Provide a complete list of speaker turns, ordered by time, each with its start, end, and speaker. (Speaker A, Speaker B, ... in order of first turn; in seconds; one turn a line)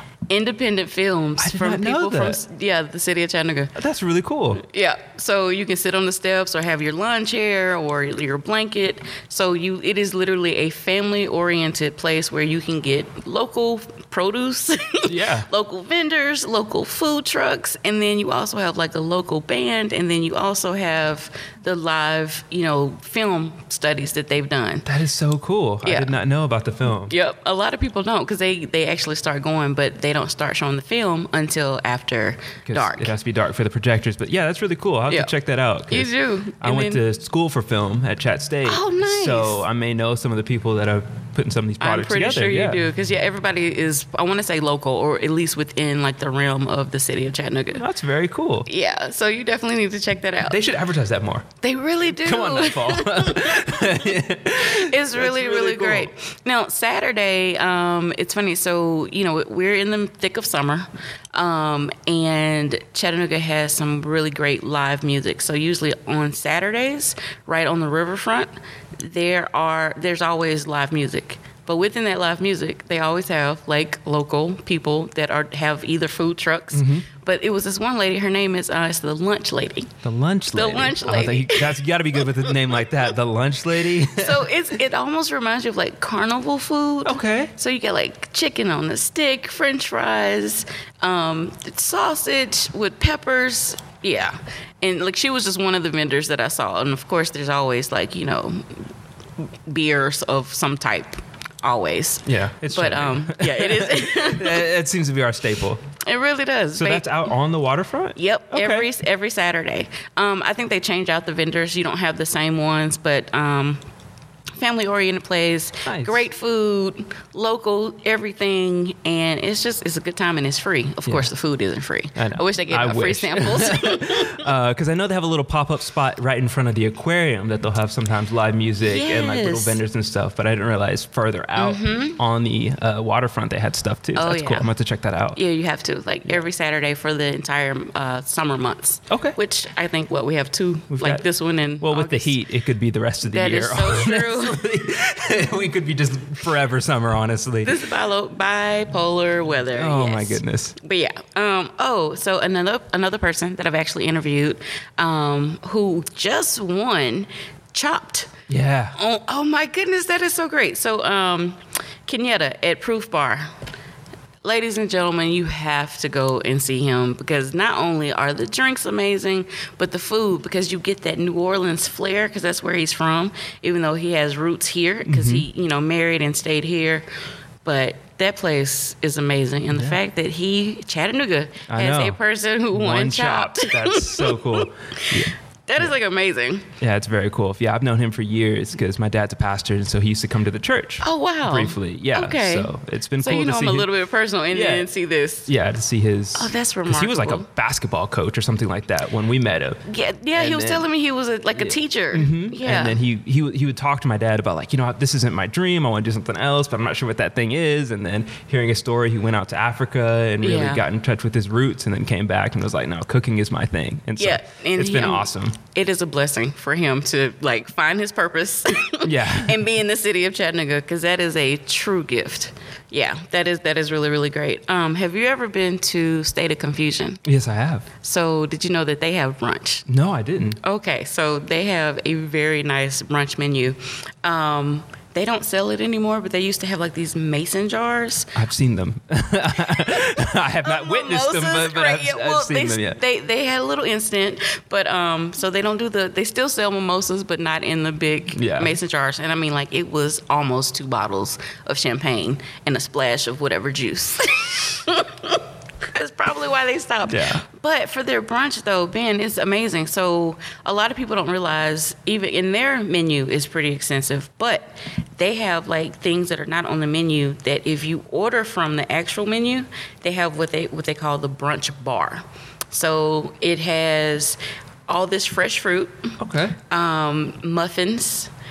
Speaker A: 0.3-3.7
Speaker B: 1.4-2.4
Speaker B: 3.8-4.6
Speaker A: 4.6-24.9
Speaker B: 15.0-15.5
Speaker B: 24.9-27.1
Speaker A: 25.8-26.2
Speaker A: 27.0-33.1
Speaker B: 32.6-42.8
Speaker A: 35.9-37.0
Speaker A: 38.6-39.6
Speaker A: 41.8-47.8
Speaker B: 47.7-48.7
Speaker A: 48.6-50.6
Speaker B: 50.5-51.5
Speaker A: 51.6-54.1
Speaker B: 52.1-56.1
Speaker A: 54.7-79.9
Speaker B: 76.7-77.0
Speaker B: 80.0-84.5
Speaker A: 80.5-83.1
Speaker A: 84.0-98.6
Speaker B: 87.0-87.5
Speaker A: 99.7-104.7
Speaker B: 102.2-105.8
Speaker A: 106.0-107.1
Speaker B: 106.8-108.9
Speaker A: 108.2-113.8
Speaker A: 114.6-124.5
Speaker B: 115.8-116.2
Speaker B: 121.0-121.3
Speaker B: 122.2-135.4
Speaker A: 128.8-129.8
Speaker A: 131.6-132.2
Speaker A: 134.1-134.7
Speaker A: 135.3-142.4
Speaker B: 139.1-139.3
Speaker B: 140.9-141.2
Speaker B: 141.8-147.8
Speaker A: 143.2-144.6
Speaker A: 147.6-158.3
Speaker B: 149.7-150.8
Speaker B: 158.5-158.9
Speaker A: 158.9-163.5
Speaker A: 164.4-177.0
Speaker B: 175.1-175.4
Speaker A: 177.6-186.7
Speaker B: 179.7-180.0
Speaker B: 181.7-182.2
Speaker B: 182.7-185.9
Speaker B: 186.8-193.9
Speaker A: 191.0-195.5
Speaker B: 194.5-194.9
Speaker B: 195.5-199.8
Speaker A: 196.3-197.5
Speaker A: 199.8-203.0
Speaker B: 200.3-200.8
Speaker B: 201.6-215.6
Speaker A: 210.4-210.8
Speaker A: 214.2-227.2
Speaker B: 219.0-219.6
Speaker B: 227.2-227.8
Speaker A: 228.0-229.8
Speaker B: 229.9-230.6
Speaker A: 230.6-238.3
Speaker B: 238.3-243.0
Speaker A: 240.6-276.0
Speaker B: 248.3-248.8
Speaker B: 257.1-257.4
Speaker B: 276.2-276.6
Speaker A: 276.7-278.3